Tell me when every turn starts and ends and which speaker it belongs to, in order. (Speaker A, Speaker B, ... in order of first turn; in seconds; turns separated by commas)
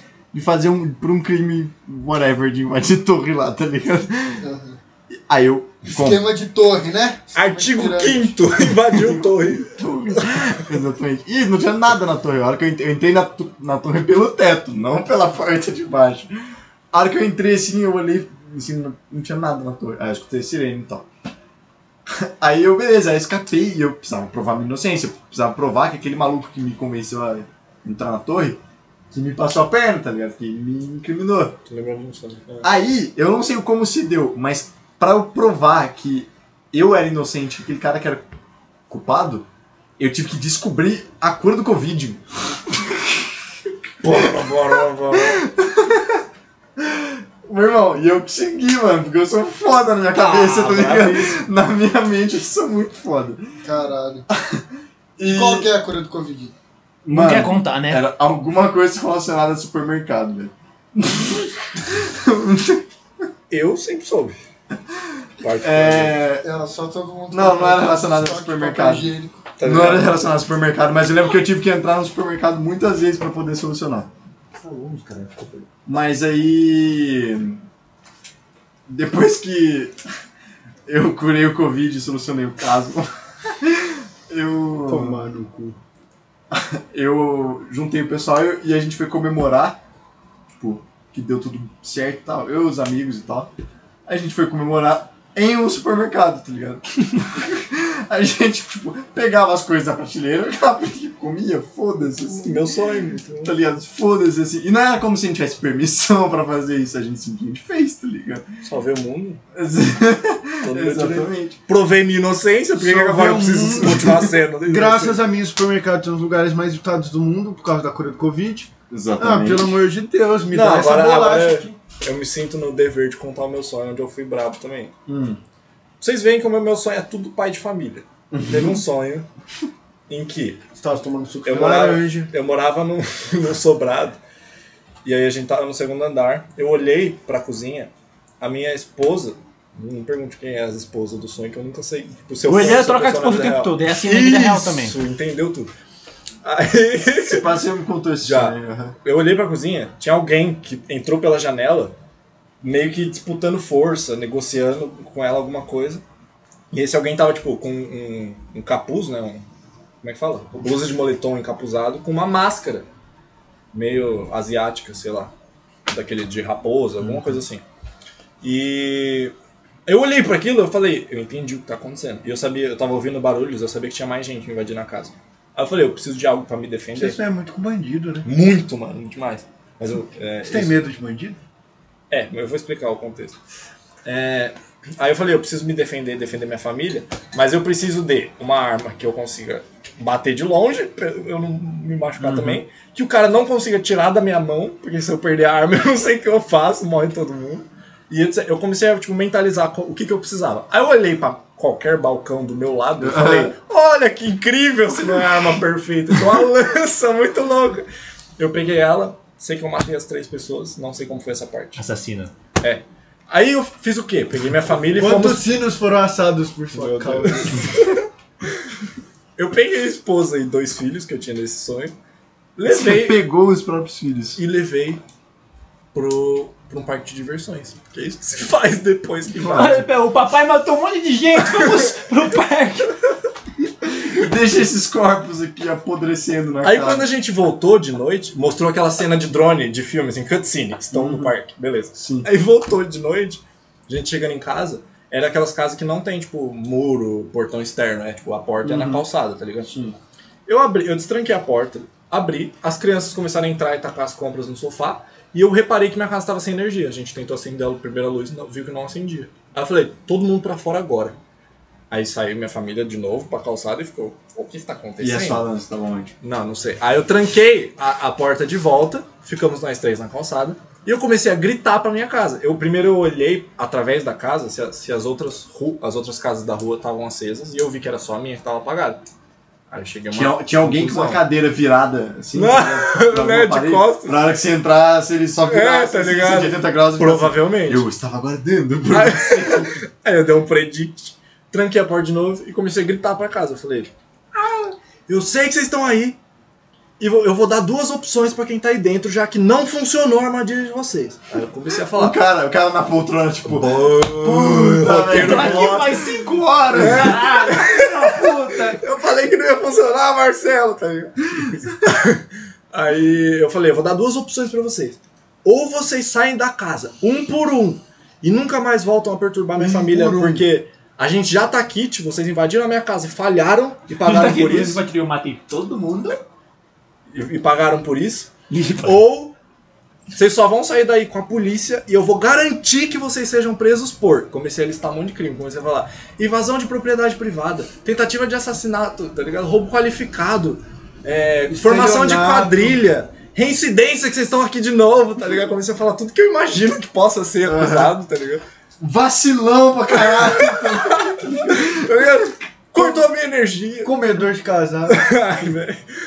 Speaker A: 0.3-4.5, Speaker B: 4.4-4.8, Speaker A: 5.1-6.3, Speaker B: 5.9-8.3, Speaker C: 7.3-10.6, Speaker A: 9.6-16.3, Speaker A: 16.9-21.1, Speaker A: 22.1-28.6, Speaker A: 29.1-31.6, Speaker C: 31.7-32.7, Speaker A: 32.6-38.2, Speaker A: 38.9-39.5, Speaker A: 40.0-43.3, Speaker C: 44.0-45.4, Speaker A: 44.0-46.2, Speaker A: 46.8-53.5, Speaker C: 50.1-51.4, Speaker B: 53.6-54.3, Speaker A: 54.3-54.7, Speaker A: 55.2-55.7, Speaker B: 55.2-56.5, Speaker A: 57.0-62.9, Speaker D: 57.1-58.1, Speaker C: 63.5-64.4, Speaker A: 64.9-66.5, Speaker C: 65.4-66.2, Speaker B: 66.4-69.5, Speaker A: 67.3-74.1, Speaker C: 69.6-70.2, Speaker D: 74.5-75.7, Speaker A: 75.9-77.6, Speaker A: 78.9-80.0, Speaker A: 80.9-85.2, Speaker B: 84.9-85.8, Speaker A: 86.5-89.8, Speaker A: 90.6-93.5, Speaker A: 94.1-102.7, Speaker C: 102.3-103.5, Speaker A: 103.4-108.5, Speaker C: 108.6-109.4, Speaker A: 109.5-111.6, Speaker C: 110.6-115.2, Speaker B: 112.8-121.7, Speaker A: 118.9-119.8, Speaker C: 120.5-124.9, Speaker A: 125.1-125.4, Speaker C: 126.0-129.3, Speaker A: 128.3-128.8, Speaker C: 130.1-130.6, Speaker B: 130.8-132.3, Speaker C: 131.4-134.2, Speaker C: 135.1-145.7, Speaker D: 142.4-145.0, Speaker C: 146.4-147.5, Speaker A: 147.2-149.0, Speaker C: 148.2-151.9, Speaker C: 152.6-156.0, Speaker C: 156.7-159.4, Speaker C: 160.0-162.8, Speaker C: 163.7-165.3, Speaker C: 165.9-167.6, Speaker C: 168.4-169.3, Speaker C: 169.9-177.2, Speaker B: 176.9-178.3, Speaker C: 178.2-180.8, Speaker B: 180.4-181.4, Speaker C: 182.1-183.4, Speaker C: 184.1-207.9, Speaker A: 192.2-192.6, Speaker A: 203.0-203.5, Speaker C: 208.4-211.8, Speaker D: 211.8-212.3, Speaker C: 212.6-215.4, Speaker B: 214.9-217.9, Speaker C: 216.7-218.6, Speaker C: 219.4-221.9, Speaker C: 222.6-223.2, Speaker A: 222.7-224.4, Speaker C: 224.4-225.0, Speaker C: 225.9-229.9, Speaker A: 229.3-229.8, Speaker D: 229.5-232.9, Speaker C: 231.6-231.9, Speaker A: 234.0-237.1, Speaker C: 236.6-249.9, Speaker A: 240.9-241.3, Speaker A: 241.9-242.3, Speaker A: 248.6-249.1, Speaker C: 250.5-261.2, Speaker C: 261.9-265.4, Speaker A: 265.0-266.1, Speaker C: 266.2-279.0, Speaker C: 279.7-281.2, Speaker A: 280.1-289.8, Speaker C: 282.3-284.3, Speaker C: 285.4-287.9, Speaker C: 288.9-296.2, Speaker C: 297.0-302.2, Speaker A: 301.9-307.2, Speaker C: 303.5-306.0, Speaker D: 304.8-308.8, Speaker C: 306.7-324.8, Speaker A: 311.4-311.7, Speaker B: 319.6-320.5, Speaker D: 323.9-326.2, Speaker C: 327.1-328.3, Speaker D: 328.5-329.0, Speaker C: 328.8-329.3, Speaker C: 330.1-348.4, Speaker B: 341.5-342.8, Speaker A: 347.4-348.0, Speaker A: 348.8-352.2, Speaker C: 350.0-354.2, Speaker B: 353.8-355.0, Speaker C: 354.9-355.8